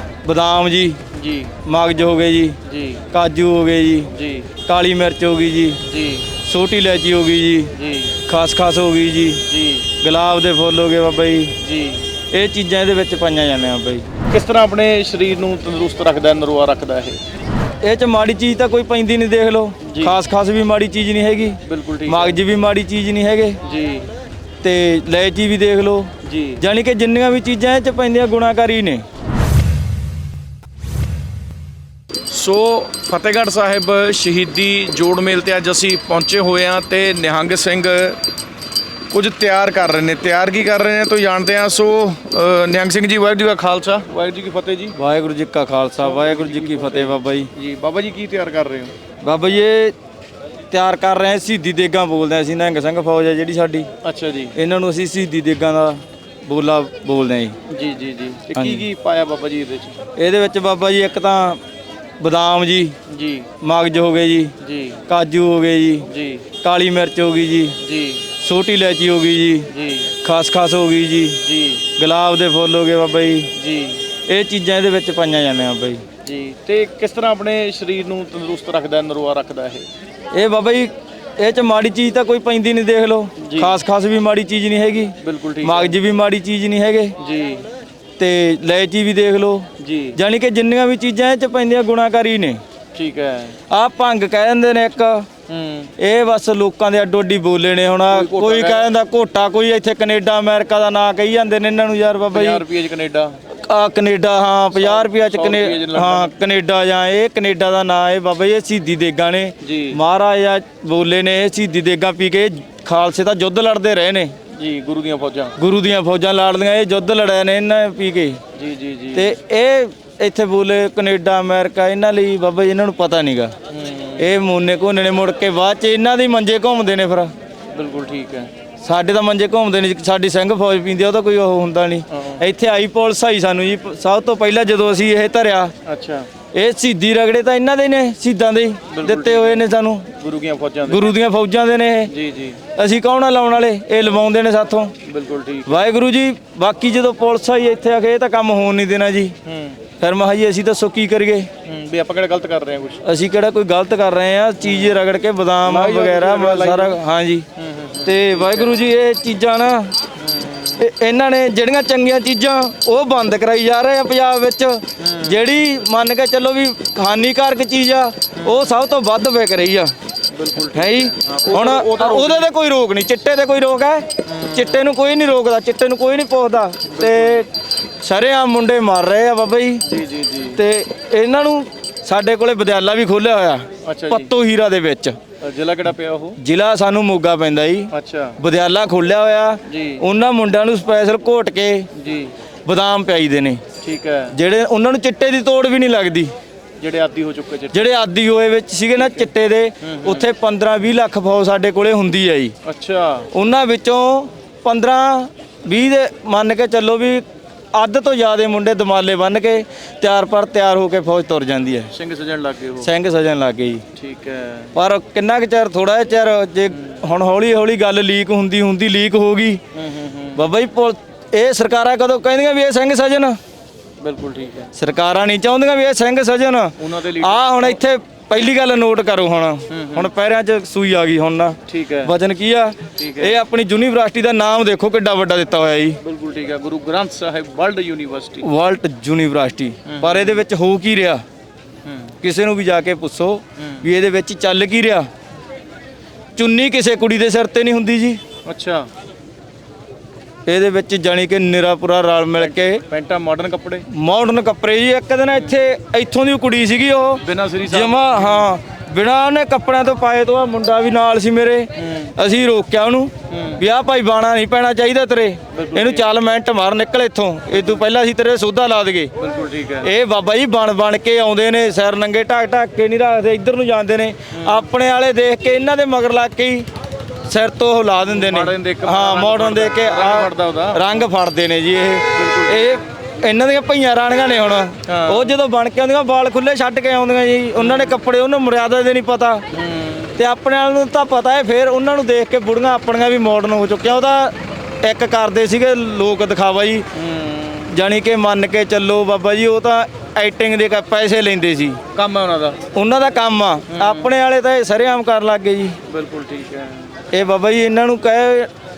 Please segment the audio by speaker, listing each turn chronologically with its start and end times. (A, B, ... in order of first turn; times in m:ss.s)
0:00.2-0:01.0 A
0:01.1-0:01.5 B
0:01.6-0:02.6 A
0:02.6-0:03.0 B
0:03.1-0:04.1 A
0:04.1-0:04.5 B
0:04.7-0:05.8 A
0:05.8-0:06.3 B
0:06.4-0:07.7 A
0:07.7-0:08.2 B
0:08.2-0:09.4 A
0:09.4-0:09.9 B
0:10.0-0:11.5 A
0:11.6-0:12.1 B
0:12.3-0:14.1 A
0:14.3-0:17.2 B
0:17.8-0:23.6 A
0:19.8-0:20.2 B
0:21.6-0:22.4 B
0:23.6-0:24.1 B
0:24.6-0:29.0 A
0:26.2-0:26.6 B
0:32.3-0:38.2 B
0:39.1-0:45.0 B
0:45.0-0:47.5 A
0:46.0-0:48.9 B
0:49.2-0:49.9 A
0:50.7-0:53.9 A
0:54.0-0:54.5 B
0:54.5-0:57.6 A
0:57.7-1:00.0 B
0:58.5-0:58.8 A
1:00.2-1:01.6 A
1:02.2-1:03.0 A
1:03.1-1:03.5 B
1:03.6-1:04.5 A
1:04.6-1:05.0 B
1:05.1-1:06.1 A
1:06.0-1:06.4 B
1:06.6-1:07.8 A
1:07.8-1:08.3 B
1:08.4-1:09.7 A
1:09.7-1:10.1 B
1:10.2-1:11.4 A
1:11.4-1:11.9 B
1:12.0-1:13.5 A
1:13.5-1:14.0 B
1:14.3-1:16.0 A
1:16.2-1:19.8 B
1:20.3-1:27.2 A
1:23.4-1:23.8 B
1:25.2-1:26.0 B
1:27.2-1:27.6 B
1:28.2-1:32.6 A
1:29.8-1:30.2 B
1:32.9-1:33.6 B
1:33.7-1:35.3 A
1:35.5-1:35.9 B
1:36.0-1:42.6 A
1:38.1-1:38.9 B
1:42.3-1:43.4 B
1:43.5-1:54.3 A
1:44.7-1:46.3 B
1:49.6-1:50.0 B
1:54.5-1:55.5 B
1:55.6-1:58.4 A
1:58.5-1:59.4 B
1:59.1-2:03.5 A
2:03.7-2:04.3 B
2:04.2-2:07.3 A
2:07.7-2:08.5 B
2:08.8-2:15.7 A
2:12.1-2:12.4 B
2:15.8-2:16.3 B
2:16.5-2:20.1 A
2:18.9-2:21.1 B
2:20.9-2:22.1 A
2:22.1-2:22.6 B
2:22.7-2:24.9 A
2:25.0-2:25.8 B
2:25.6-2:29.3 A
2:29.4-2:29.8 B
2:30.0-2:31.5 A
2:31.6-2:33.0 B
2:33.0-2:37.4 A
2:34.6-2:35.0 B
2:35.6-2:37.0 B
2:37.6-2:38.8 B
2:38.0-2:40.0 A
2:40.2-2:40.8 B
2:40.8-2:49.9 A
2:45.0-2:45.4 B
2:48.4-2:48.7 B
2:50.3-2:52.5 B
2:50.7-2:57.5 A
2:54.2-2:54.8 B
2:56.8-2:57.4 B
2:58.0-2:59.8 A
2:59.8-3:00.6 B
3:00.5-3:05.2 A
3:03.8-3:04.3 B
3:05.4-3:06.4 B
3:06.4-3:11.9 A
3:07.9-3:08.4 B
3:09.6-3:10.0 B
3:11.9-3:12.3 B
3:12.6-3:13.6 A
3:13.8-3:14.4 B
3:14.3-3:16.3 A
3:16.8-3:17.9 B
3:17.7-3:22.5 A
3:19.0-3:19.3 B
3:19.8-3:20.3 B
3:22.6-3:23.3 B
3:23.3-3:31.9 A
3:31.9-3:32.9 B
3:32.8-3:33.8 A
3:33.9-3:34.7 B
3:34.7-3:39.6 A
3:39.7-3:40.4 B
3:40.3-3:43.4 A
3:44.0-3:44.7 B
3:44.8-3:56.0 A
3:46.8-3:47.8 B
3:49.7-3:50.1 B
3:51.7-3:52.1 B
3:53.0-3:53.4 B
3:56.0-3:58.5 B
3:58.4-4:01.2 A
3:59.8-4:00.4 B
4:01.8-4:02.1 B
4:02.2-4:05.1 A
4:03.6-4:03.8 B
4:06.4-4:08.2 A
4:08.4-4:08.9 B
4:10.4-4:12.8 A
4:12.4-4:13.8 B
4:13.9-4:29.1 A
4:17.2-4:18.5 B
4:21.8-4:22.1 B
4:23.3-4:23.6 B
4:25.5-4:26.1 B
4:29.2-4:29.9 B
4:29.8-4:36.6 A
4:34.3-4:34.7 B
4:37.2-4:49.4 A
4:38.1-4:40.8 B
4:42.1-4:42.7 B
4:44.9-4:45.4 B
4:47.6-4:48.0 B
4:49.5-4:50.1 B
4:50.2-4:56.8 A
4:56.9-4:57.7 B
4:57.7-5:01.8 A
5:01.9-5:02.6 B
5:02.7-5:05.8 A
5:03.7-5:04.1 B
5:05.8-5:07.0 B
5:07.1-5:08.5 A